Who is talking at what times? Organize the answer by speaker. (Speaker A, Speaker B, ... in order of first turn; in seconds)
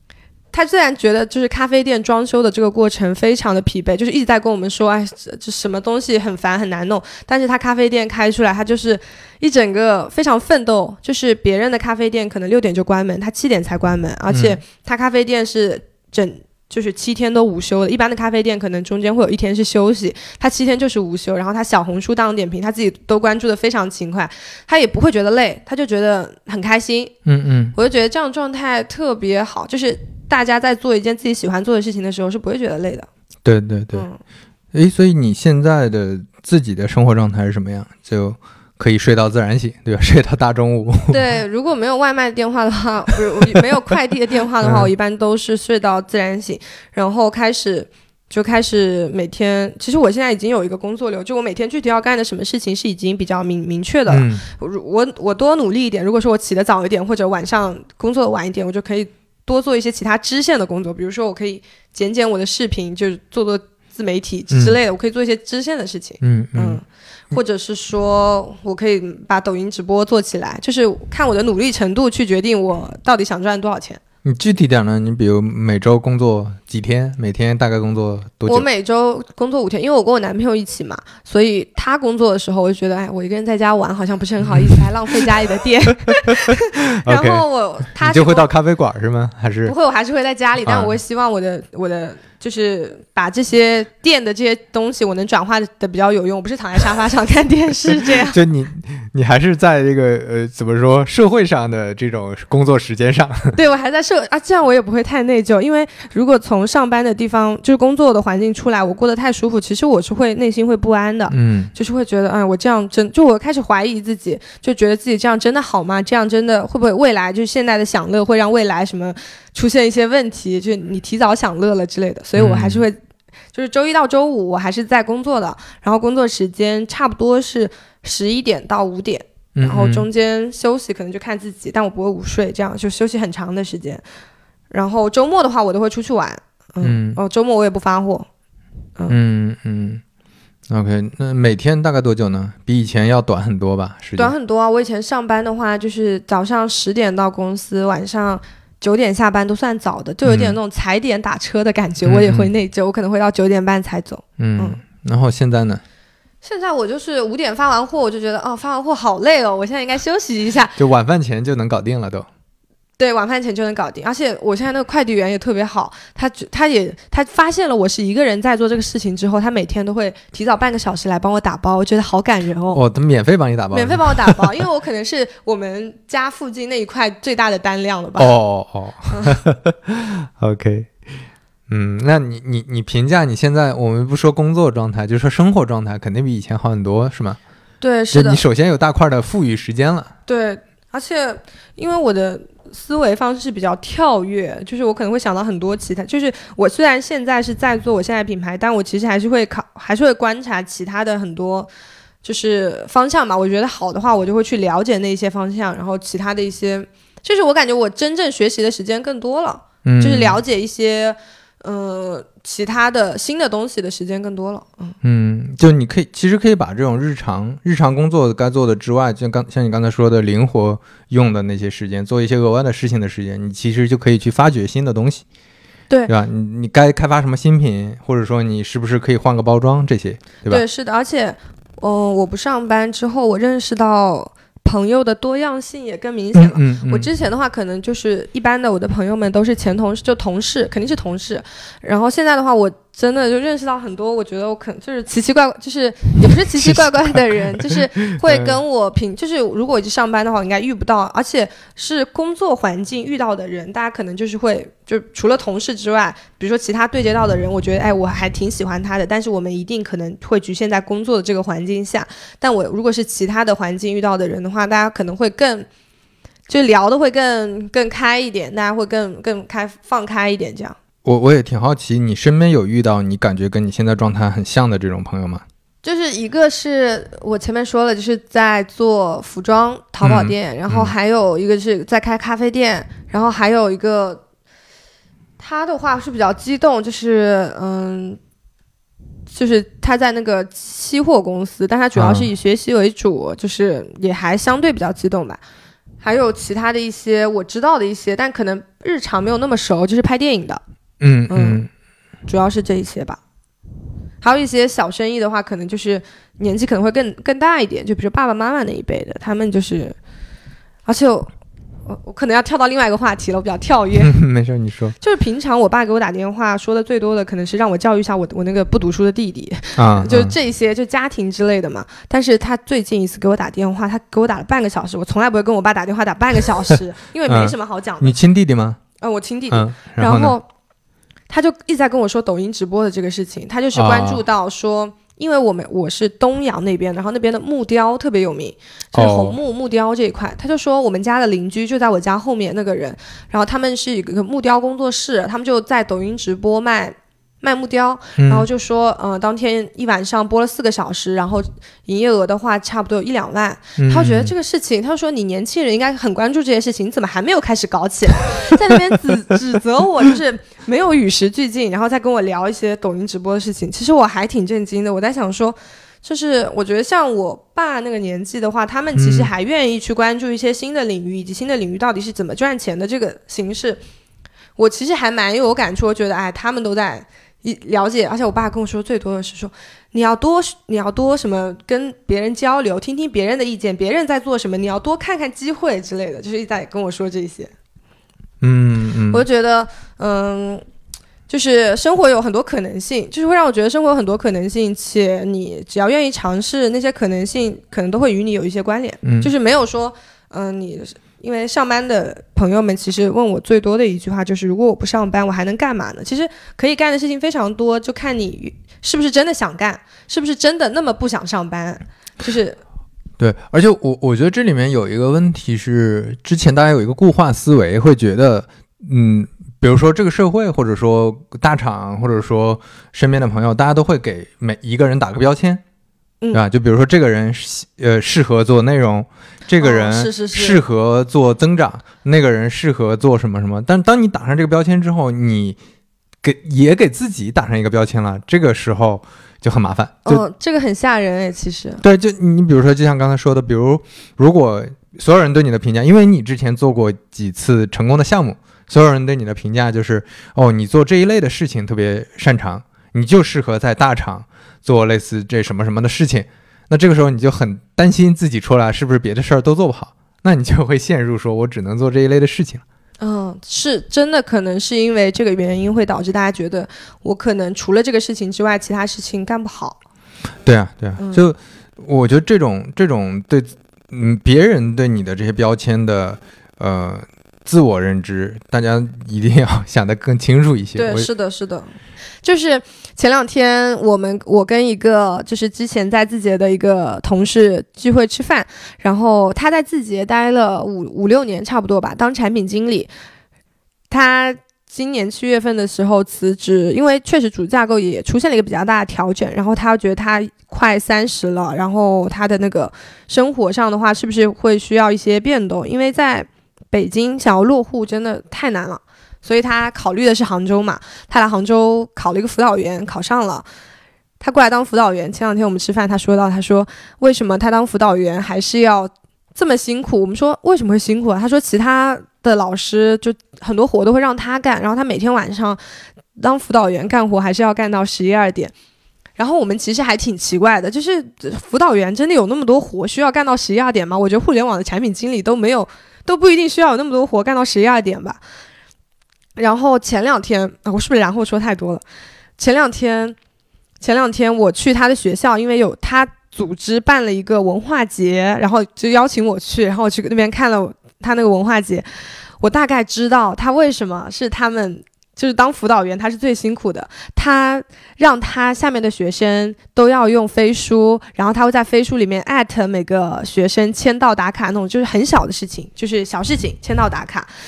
Speaker A: 0.5-27.1, 27.7-33.1, 33.9-34.2, 41.1-74.0, 78.5-88.5, 89.6-98.4, 103.5-123.0, 123.5-134.0, 134.7-138.3, 144.2-154.8, 156.4-160.8, 163.0-172.8, 173.7-178.4, 179.1-179.4, 187.8-188.4, 190.3-201.7, 202.2-214.9, 230.5-265.7, 266.5-270.8, 275.8-284.2, 285.4-288.2, 289.3-295.4, 296.0-300.6, 301.3-301.6, 302.3-303.2, 304.2-309.9, 310.9-311.3, 311.9-314.1, 315.0-328.1, 329.0-330.4, 331.3-373.8, 374.6-387.5, 389.1-390.6, 391.3-412.6, 429.6-430.6, 440.1-441.8, 463.0-469.8, 471.0-471.2, 480.8-492.9, 493.9-513.5, 514.2-525.6, 526.1-528.5, 529.2-538.2, 539.4-541.8, 542.4-543.1, 543.8-551.9, 552.4-567.3
Speaker B: 14.3-14.6, 27.2-27.7, 33.4-34.1, 34.7-41.2, 44.6-44.9, 54.1-54.5, 66.2-66.8, 74.2-78.7, 84.5-84.7, 86.2-89.7, 90.6-90.9, 98.1-103.5, 111.3-111.7, 122.3-122.8, 129.6-130.0, 136.8-137.2, 139.1-140.0, 140.7-144.3, 150.2-150.6, 152.1-152.5, 154.4-155.8, 160.8-162.3, 172.7-174.4, 178.2-181.0, 181.7-187.4, 188.1-190.1, 209.8-210.4, 215.0-225.2, 226.1-230.6, 236.3-237.1, 246.6-248.6, 271.0-275.4, 280.0-280.9, 291.9-292.3, 301.0-301.7, 314.0-314.9, 319.8-320.3, 327.3-328.8, 329.5-330.4, 333.7-334.2, 338.9-339.4, 348.2-348.4, 353.8-354.3, 368.9-369.3, 388.4-389.2, 399.0-399.3, 413.2-425.6, 426.3-435.6, 436.2-440.2, 441.8-462.6, 470.4-481.1